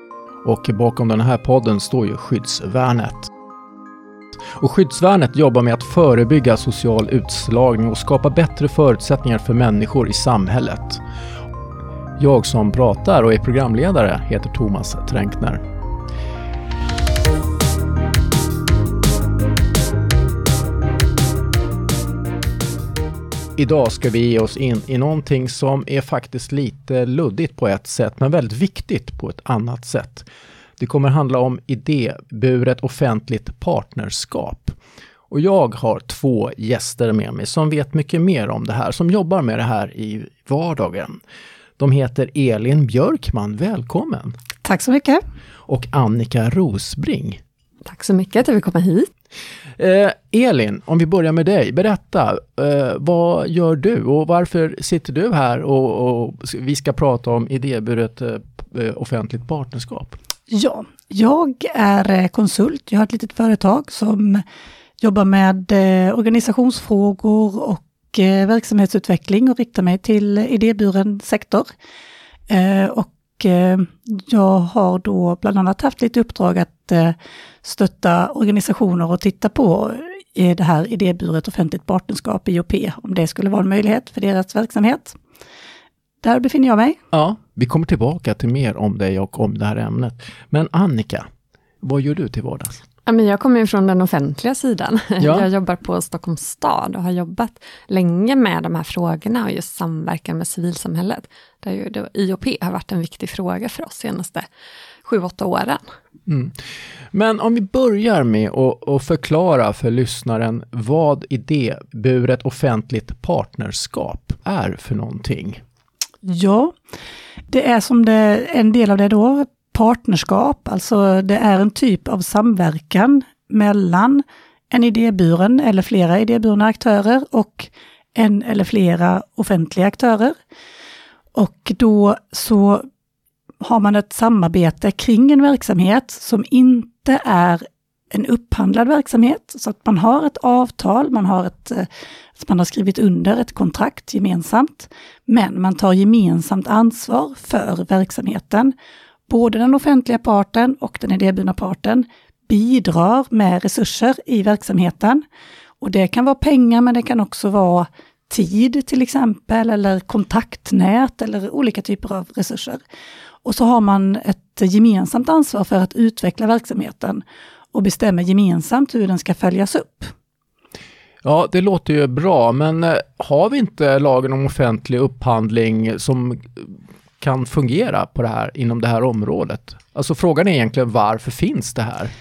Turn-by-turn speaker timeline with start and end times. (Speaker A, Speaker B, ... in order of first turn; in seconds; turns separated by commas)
Speaker A: 0.5-3.3, Speaker A: 4.5-11.0, Speaker A: 12.2-15.6, Speaker A: 23.6-30.3, Speaker A: 30.8-34.8, Speaker A: 35.3-41.2, Speaker A: 41.8-44.4, Speaker B: 44.6-45.2, Speaker A: 45.7-47.4, Speaker C: 47.9-49.1, Speaker A: 49.8-60.2, Speaker B: 60.5-64.4, Speaker B: 65.0-71.7, Speaker B: 72.5-85.2, Speaker B: 86.2-87.0, Speaker A: 87.1-91.3, Speaker A: 91.8-92.8, Speaker C: 93.1-104.5, Speaker A: 95.2-95.5, Speaker C: 105.0-105.8, Speaker A: 106.3-106.5, Speaker A: 107.1-115.6, Speaker B: 116.2-116.7, Speaker B: 117.5-130.3, Speaker B: 131.3-132.9, Speaker B: 133.6-148.7, Speaker B: 149.3-155.2, Speaker B: 155.8-162.8, Speaker B: 163.4-167.2, Speaker B: 167.7-170.1, Speaker A: 171.2-182.1